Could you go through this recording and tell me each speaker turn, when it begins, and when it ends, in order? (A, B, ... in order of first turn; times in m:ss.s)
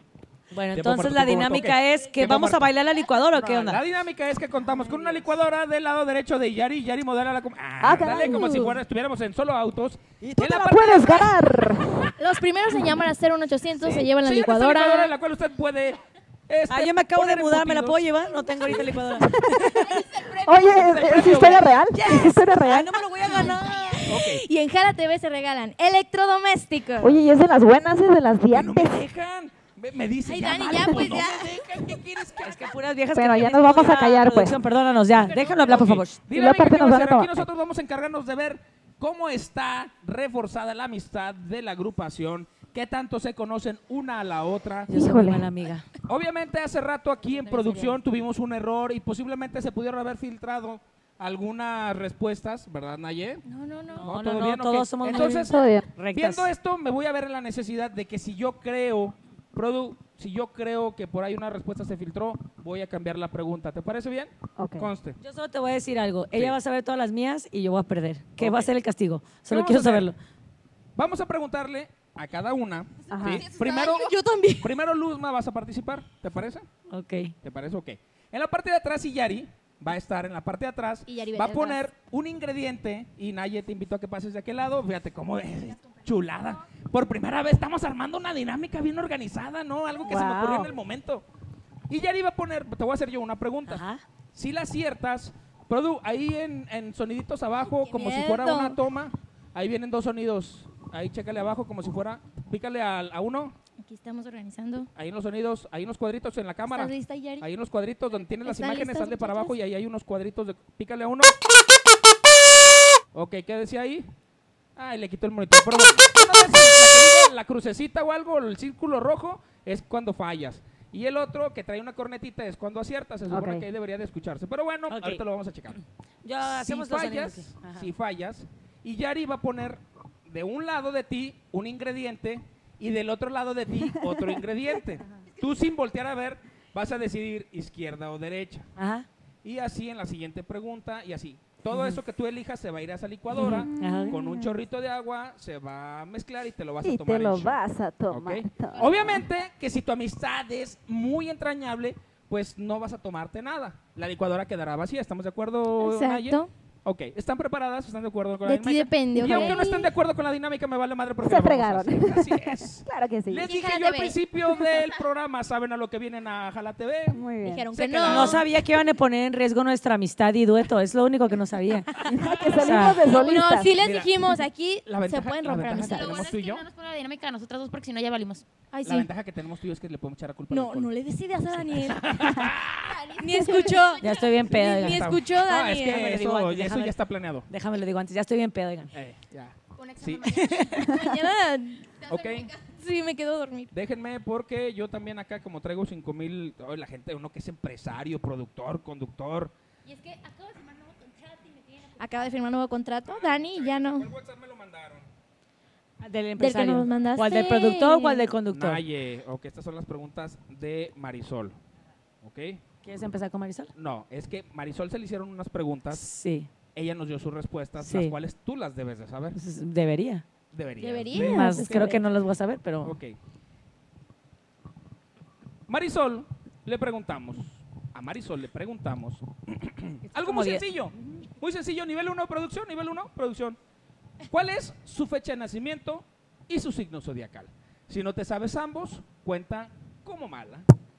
0:00.5-0:03.8 A
0:00.7-0:02.7 B
0:03.3-0:11.4 B
0:07.8-0:08.8 C
0:10.2-0:12.1 C
0:12.2-0:15.1 D
0:13.8-0:18.0 B
0:16.7-0:20.0 A
0:19.2-0:23.0 C
0:20.7-0:21.8 B
0:21.9-0:24.0 A
0:23.0-0:27.2 D
0:23.4-0:23.7 E
0:24.1-0:24.4 B
0:27.0-0:29.0 C
0:28.5-0:32.7 B
0:30.2-0:31.8 D
0:32.4-0:36.2 A
0:33.1-0:34.6 C
0:35.2-0:44.9 B
0:36.3-0:37.5 C
0:44.9-0:45.5 C
0:44.9-0:45.8 A
0:46.0-0:53.4 B
0:47.6-0:47.9 D
0:53.4-0:54.1 D
0:53.9-0:56.5 A
0:54.0-1:05.2 B
0:55.2-0:55.9 C
1:04.6-1:04.9 C
1:05.2-1:10.2 A
1:06.3-1:06.6 B
1:08.4-1:08.7 B
1:09.5-1:10.1 B
1:11.0-1:16.6 B
1:13.1-1:13.5 C
1:13.5-1:14.8 D
1:16.9-1:17.3 A
1:17.4-1:31.2 B
1:21.1-1:21.8 D
1:30.0-1:30.7 C
1:31.9-1:43.5 B
1:33.7-1:34.0 A
1:37.7-1:38.8 D
1:43.8-1:44.9 D
1:44.9-1:51.3 B
1:46.7-1:47.5 D
1:48.4-1:49.5 D
1:53.1-1:54.1 B
1:54.8-2:05.8 B
2:03.3-2:03.6 C
2:04.9-2:05.2 A
2:06.2-2:07.9 A
2:06.4-2:18.7 B
2:13.9-2:14.4 C
2:18.8-2:19.0 A
2:19.4-2:27.6 B
2:21.7-2:22.0 A
2:23.4-2:24.2 A
2:23.4-2:24.5 C
2:26.8-2:29.2 C
2:28.1-2:48.4 B
2:35.8-2:36.5 D
2:38.4-2:39.9 D
2:39.2-2:39.5 C
2:41.2-2:43.5 C
2:43.4-2:44.8 D
2:47.1-2:47.7 C
2:47.4-2:48.4 D
2:48.1-2:51.9 A
2:52.1-2:53.7 C
2:52.2-2:52.8 B
2:52.5-2:53.0 A
2:53.0-2:56.3 D
2:53.7-2:56.6 B
2:55.8-2:58.4 E
2:58.7-2:59.1 D
2:58.8-3:00.9 B
3:00.5-3:02.2 D
3:01.7-3:03.1 B
3:02.9-3:04.0 E
3:03.1-3:06.2 D
3:04.0-3:05.2 A
3:04.5-3:07.5 B
3:05.8-3:08.9 A
3:08.9-3:10.5 B
3:09.8-3:11.0 E
3:10.4-3:10.7 A
3:10.5-3:12.1 D
3:12.0-3:12.6 E
3:12.1-3:12.5 B
3:12.6-3:13.7 D
3:13.7-3:19.5 B
3:19.8-3:22.2 E
3:22.0-3:24.1 D
3:23.0-3:25.1 B
3:26.0-3:28.8 A
3:26.4-3:28.3 D
3:28.5-3:31.6 B
3:32.2-3:32.6 B
3:32.8-3:33.7 A
3:33.7-3:36.0 B
3:35.9-3:36.5 A
3:36.7-3:39.4 B
3:37.8-3:38.2 A
3:39.3-3:40.2 A
3:40.5-3:42.0 B
3:40.8-3:42.0 D
3:41.1-3:43.0 A
3:42.8-3:43.2 B
3:45.7-3:53.6 B
3:50.1-3:50.6 A
3:54.3-4:00.7 B